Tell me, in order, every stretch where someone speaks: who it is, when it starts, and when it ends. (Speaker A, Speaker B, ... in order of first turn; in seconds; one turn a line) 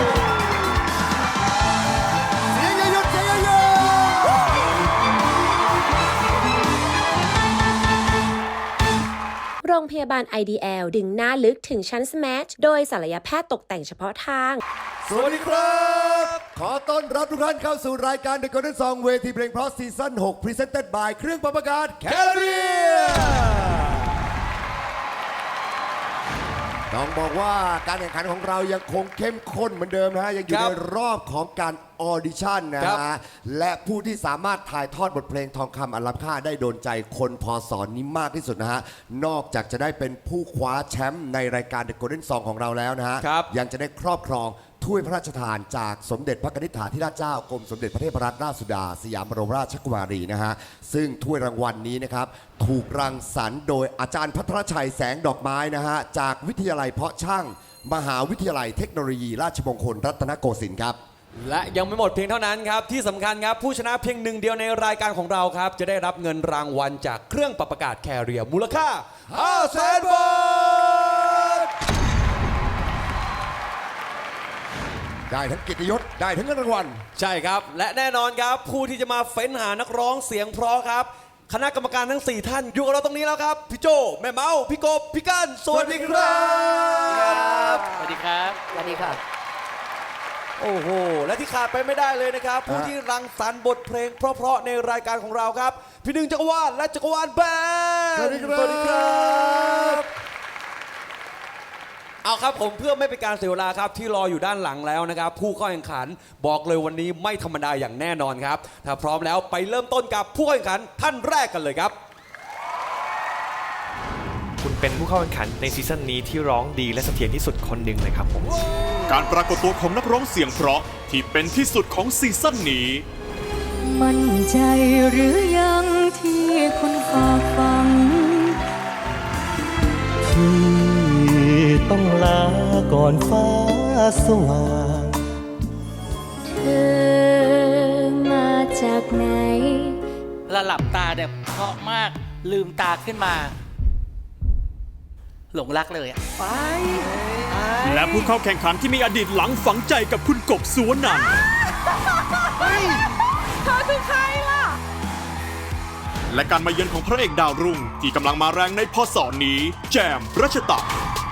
Speaker A: 2.5-4.5
Speaker B: 9.6-14.6
Speaker A: 15.1-24.0
Speaker C: 15.1-16.4
Speaker C: 22.1-23.5
Speaker A: 26.9-61.0
Speaker C: 30.5-30.8
Speaker C: 32.8-33.0
Speaker C: 43.2-43.5
Speaker C: 61.4-71.4
Speaker A: 69.3-71.6
Speaker A: 75.3-77.0
Speaker C: 77.2-88.0
Speaker A: 85.7-87.8
Speaker D: 87.2-89.2
Speaker C: 90.6-100.1
Speaker A: 92.7-92.9
Speaker A: 98.2-100.1
Speaker C: 102.2-112.0
Speaker E: 114.6-118.6
Speaker F: 119.1-123.0
Speaker G: 123.8-128.6
Speaker H: 130.3-135.1
Speaker G: 136.5-140.0
Speaker D: 140.5-143.6
Speaker D: 145.5-146.2
Speaker C: 147.5-147.9
Speaker F: 147.8-151.3
Speaker F: 156.3-160.9